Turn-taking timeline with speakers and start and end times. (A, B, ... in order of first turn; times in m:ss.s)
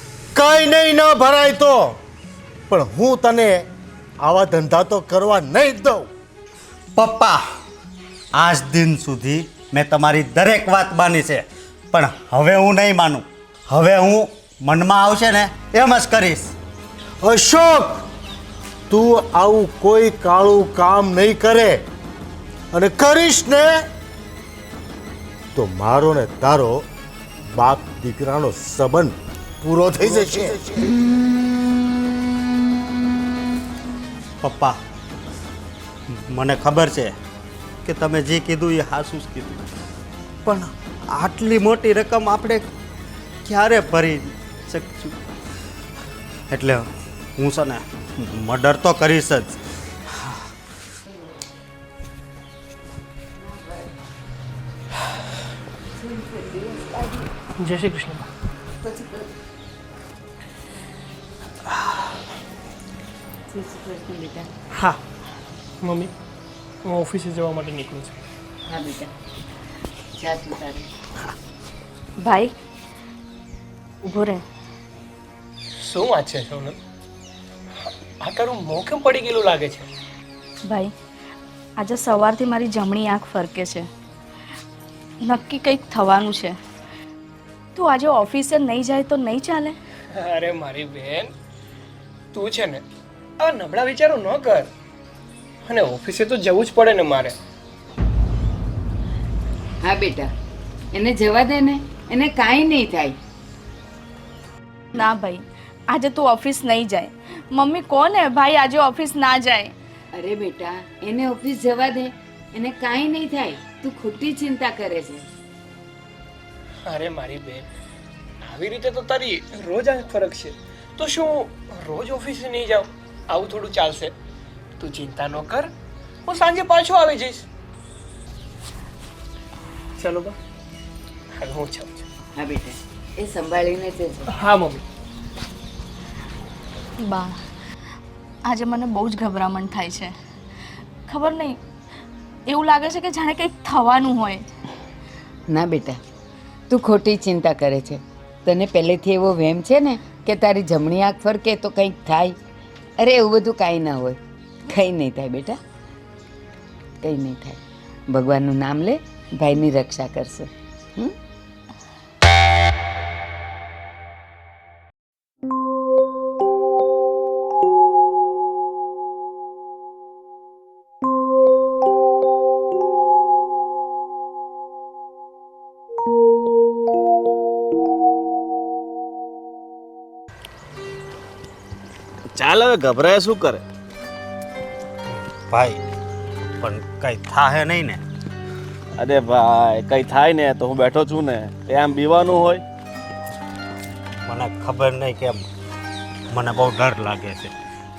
0:00.3-0:02.0 A
0:02.7-0:03.6 A
0:04.2-0:06.0 A
0:07.0-0:07.4 B
0:08.4-0:16.5 B
0:17.2-0:18.0 A
0:18.9-0:21.8 A
0:22.7-0:23.8 A
0:25.5-0:26.8 A
0:27.5-0:30.6 A
0:34.4-0:34.8 B
0:36.3-0:37.1 B
0:37.8-0:39.6 B
0:40.4-0:42.6 B
0:43.4-0:45.2 B
0:46.5-0:49.6 B
0:56.4-0:57.2 C
0:57.6-0:58.2 D
1:03.5-1:04.5 C
1:05.8-1:06.1 D
1:06.8-1:08.1 D
1:08.7-1:09.1 C
1:10.2-1:10.8 C
1:12.2-1:12.5 E
1:14.0-1:14.4 E
1:15.9-1:16.8 D
1:18.2-1:19.9 D
1:20.7-1:20.9 E
1:21.8-1:23.9 E
1:25.2-1:26.6 E
1:27.7-1:29.8 E
1:30.1-1:31.3 D
1:32.3-1:32.8 D
1:33.4-1:34.7 D
1:35.7-1:37.3 D
1:39.8-1:40.3 C
1:40.9-1:43.2 C
1:44.9-1:49.7 E
1:50.1-1:55.2 C
1:56.8-1:57.7 D
1:58.5-2:04.1 D
2:04.8-2:05.7 D
2:06.3-2:07.4 D
2:10.0-2:10.4 D
2:11.4-2:12.0 D
2:12.3-2:14.2 C
2:14.4-2:14.8 D
2:17.0-2:17.4 E
2:18.4-2:20.1 E
2:21.1-2:21.6 E
2:22.5-2:24.4 E
2:25.5-2:26.0 C
2:26.7-2:32.4 C
2:33.0-2:35.6 C
2:37.0-2:41.1 C
3:02.3-3:03.6 F
3:05.5-3:05.8 B
3:06.6-3:08.0 B
3:09.0-3:12.6 F
3:14.3-3:15.4 B
3:16.3-3:17.5 B